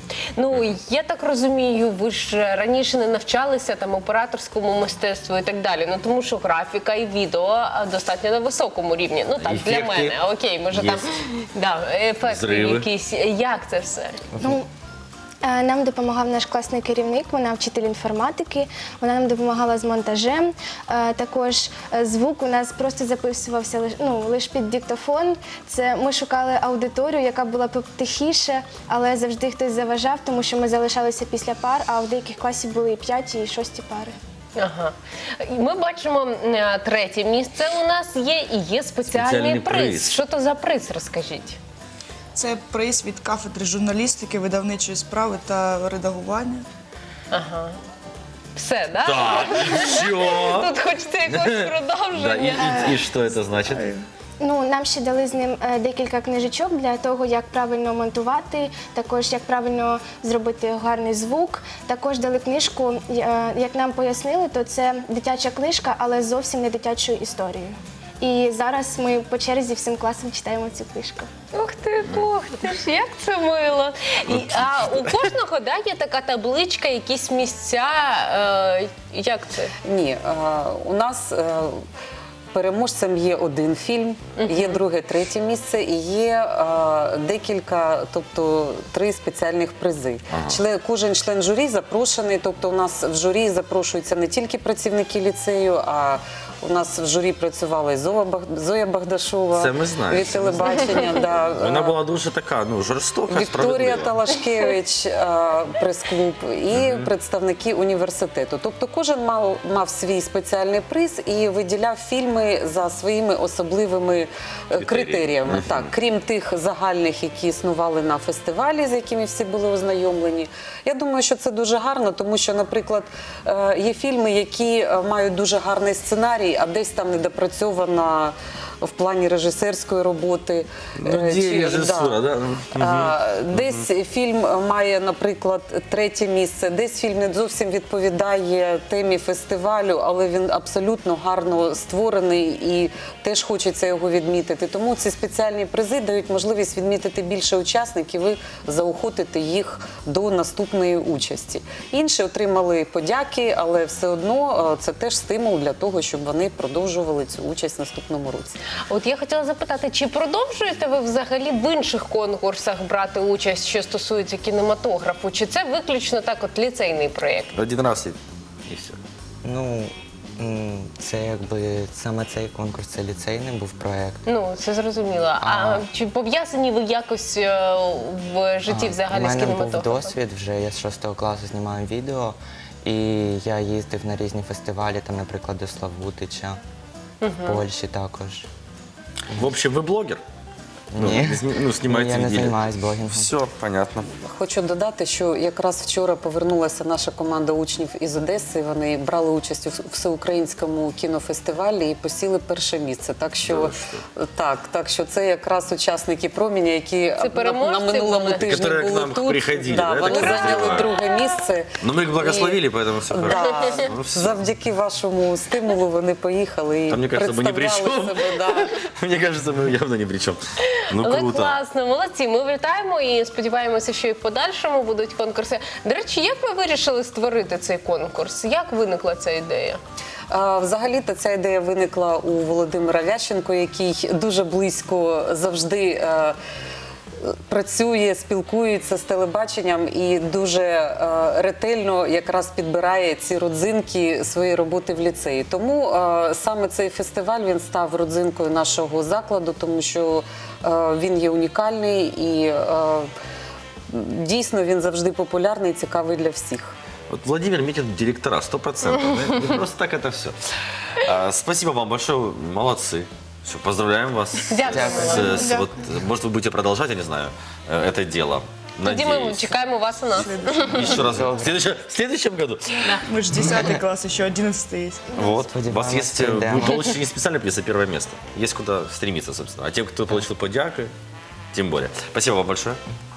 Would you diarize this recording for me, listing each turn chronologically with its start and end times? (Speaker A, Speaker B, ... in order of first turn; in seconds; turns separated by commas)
Speaker A: 0.4-14.2, Speaker B: 9.4-10.2, Speaker B: 10.7-11.1, Speaker B: 12.2-12.9, Speaker C: 15.4-34.1, Speaker A: 34.6-41.6, Speaker B: 39.0-40.2, Speaker D: 42.3-46.6, Speaker A: 47.3-47.8, Speaker A: 48.6-52.9, Speaker B: 49.0-50.7, Speaker B: 51.3-53.9, Speaker D: 53.6-54.0, Speaker C: 54.4-71.3, Speaker A: 71.5-79.7, Speaker B: 74.4-74.9, Speaker E: 79.8-81.8, Speaker E: 82.5-102.0, Speaker A: 84.4-84.8, Speaker B: 90.3-90.6, Speaker B: 99.5-100.9, Speaker B: 101.5-104.1, Speaker E: 103.3-132.2, Speaker B: 106.7-107.1, Speaker B: 114.8-115.9, Speaker B: 131.0-133.8, Speaker E: 132.8-158.6, Speaker A: 158.9-167.6, Speaker B: 167.6-169.0, Speaker F: 169.4-174.2, Speaker A: 174.3-180.1, Speaker F: 175.4-175.9, Speaker F: 178.7-186.6, Speaker A: 187.2-187.6, Speaker F: 187.4-188.5, Speaker B: 189.3-190.2, Speaker F: 190.9-193.3, Speaker B: 191.0-194.2, Speaker E: 194.3-218.7, Speaker B: 203.4-204.0, Speaker A: 207.2-208.6, Speaker B: 208.4-210.9, Speaker B: 211.8-214.4, Speaker B: 216.9-221.6, Speaker A: 220.9-229.8, Speaker E: 230.3-236.4, Speaker E: 237.2-253.1, Speaker E: 253.9-256.8, Speaker B: 257.1-260.4, Speaker B: 261.0-269.5, Speaker A: 264.5-265.4, Speaker F: 264.6-265.6, Speaker D: 265.4-265.6, Speaker A: 268.8-271.0, Speaker B: 270.2-272.9, Speaker D: 270.2-271.2, Speaker F: 270.9-271.6, Speaker D: 273.0-275.2, Speaker B: 275.1-280.9, Speaker F: 275.2-276.9, Speaker B: 281.5-282.8